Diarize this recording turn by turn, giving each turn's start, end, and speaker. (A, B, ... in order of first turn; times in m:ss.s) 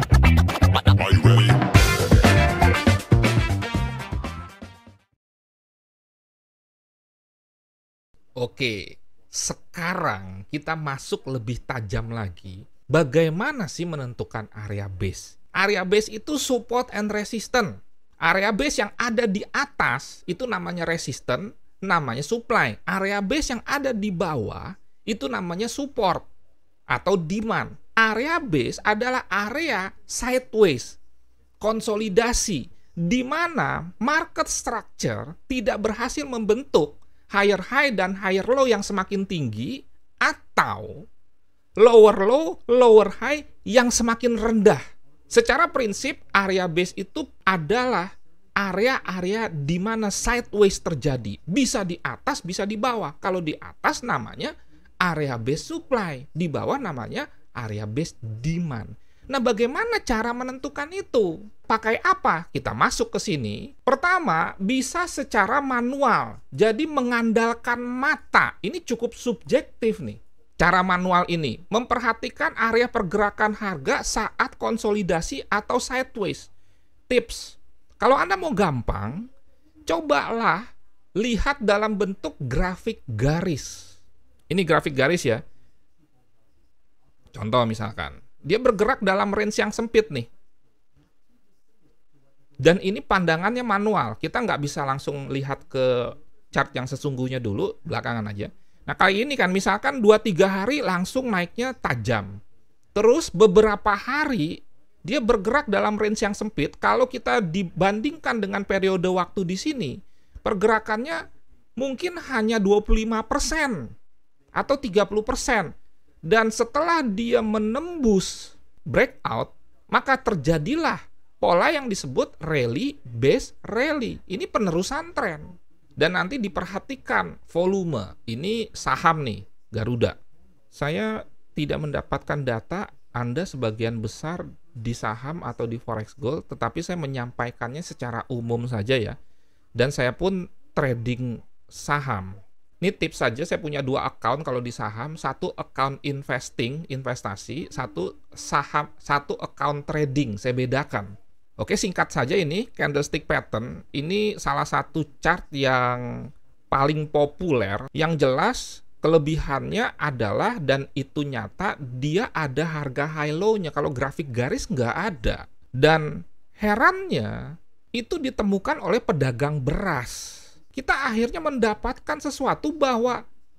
0:08.4-0:26.3 A
0:26.9-0:31.0 A
0:31.6-0:41.0 A
0:41.8-1:16.5 A
1:17.1-1:19.3 A
1:19.9-1:24.0 A
1:24.5-1:25.4 A
1:27.3-1:30.3 A
1:32.6-1:42.4 A
1:42.9-1:51.2 A
1:51.8-1:53.9 A
1:54.5-1:55.7 A
1:56.3-2:10.2 A
2:10.7-2:19.2 A
2:19.8-2:53.2 A